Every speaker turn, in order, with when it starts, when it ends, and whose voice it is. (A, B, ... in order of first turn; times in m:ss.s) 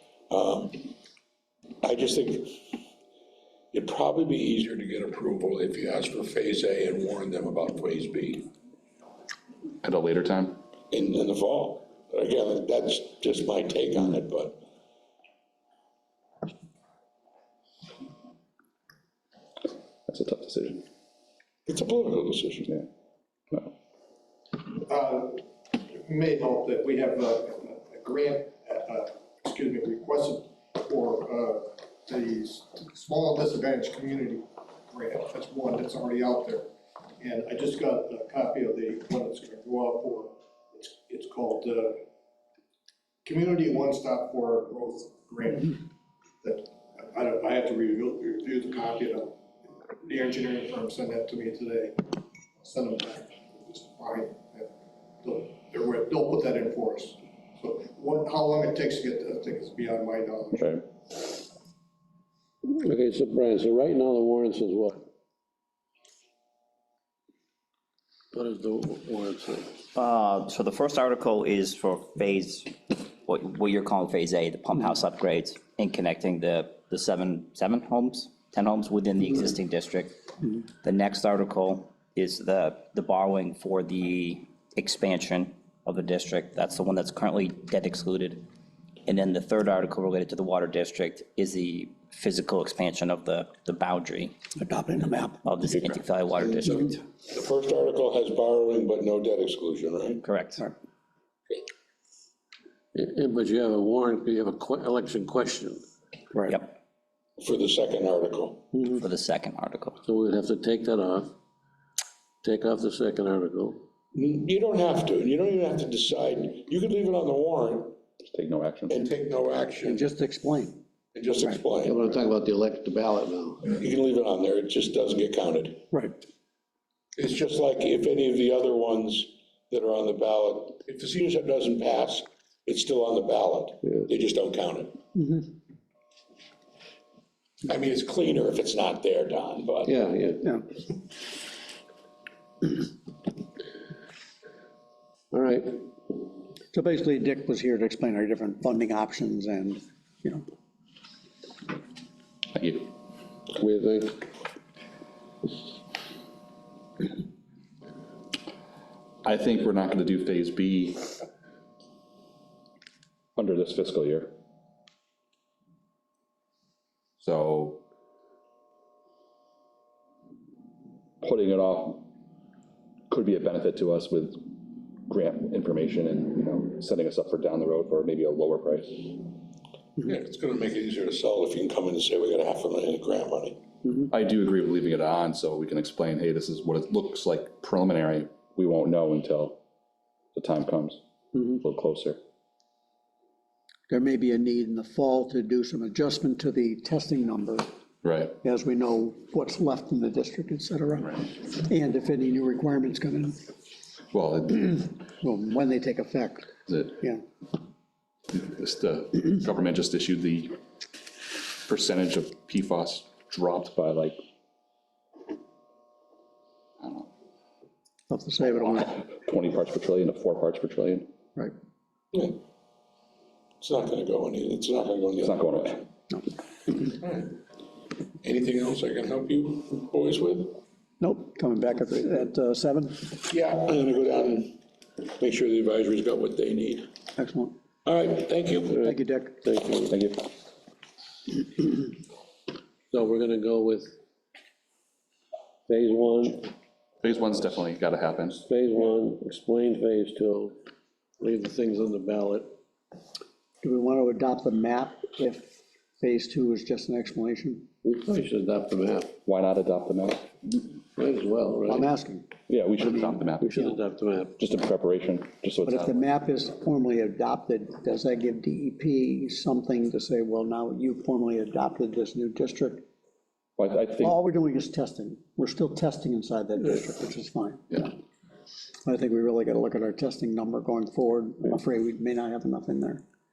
0:00.3-0:00.9 A
0:01.8-0:02.7 A
0:03.7-0:08.5 A
0:09.8-0:10.6 B
0:10.9-0:14.6 A
0:20.1-0:20.8 B
0:21.7-0:22.7 A
0:24.7-0:42.0 C
0:43.2-0:45.8 C
0:46.4-0:49.4 C
0:50.0-1:00.7 C
1:00.5-1:00.8 B
1:02.7-1:05.0 D
1:08.3-1:09.7 D
1:09.9-1:20.1 E
1:20.8-1:28.4 E
1:29.0-1:34.3 E
1:34.6-1:35.5 F
1:35.4-1:37.0 E
1:36.4-1:40.2 A
1:40.2-1:40.6 E
1:42.9-1:45.8 D
1:46.3-1:46.6 F
1:47.4-1:48.7 A
1:48.7-1:49.0 F
1:49.0-1:50.0 E
1:50.0-1:51.3 D
1:52.4-1:53.8 D
1:54.1-1:58.0 A
1:58.2-1:59.0 B
1:58.9-2:00.0 A
1:59.8-2:00.8 F
2:01.1-2:02.2 A
2:01.8-2:03.7 D
2:03.7-2:05.9 A
2:05.9-2:06.2 F
2:07.2-2:15.0 A
2:15.1-2:15.5 F
2:17.6-2:20.0 A
2:19.8-2:20.5 D
2:25.3-2:25.8 D
2:26.7-2:30.4 F
2:32.5-2:32.9 B
2:33.6-2:34.2 D
2:39.2-2:41.1 B
2:43.4-2:44.4 B
2:47.2-2:47.8 B
2:51.2-2:52.1 B
2:53.1-2:54.5 B
2:55.0-2:59.2 B
3:00.0-3:03.6 A
3:04.1-3:09.6 B
3:10.3-3:12.2 B
3:11.3-3:11.6 F
3:13.9-3:17.7 F
3:18.0-3:18.4 B
3:18.4-3:23.4 F
3:24.1-3:24.9 B
3:25.2-3:27.2 F
3:26.7-3:27.0 B
3:28.3-3:30.6 B
3:31.6-3:34.2 B
3:36.8-3:37.1 B
3:38.1-3:39.0 F
3:38.4-3:41.1 B
3:42.1-3:42.4 A
3:43.6-3:45.8 A
3:45.2-3:45.8 B
3:46.8-3:47.4 A
3:48.2-3:50.6 A
3:51.0-3:53.1 F
3:53.2-3:54.6 A
3:55.2-3:56.9 A
3:57.2-3:57.5 F
3:57.8-3:58.8 A
3:58.7-3:59.9 D
3:58.8-3:59.4 F
3:59.9-4:00.3 B
4:02.9-4:03.9 D
4:05.7-4:06.4 D
4:07.0-4:08.4 B
4:08.4-4:10.5 D
4:11.2-4:12.5 D
4:13.6-4:17.7 F
4:17.8-4:19.1 D
4:19.2-4:20.3 B
4:21.0-4:21.9 D
4:21.6-4:22.3 F
4:22.5-4:23.8 B
4:22.8-4:23.1 F
4:23.4-4:24.3 D
4:24.4-4:26.0 B
4:25.6-4:32.8 F
4:33.6-4:34.2 B
4:34.0-4:37.9 F
4:38.8-4:43.0 F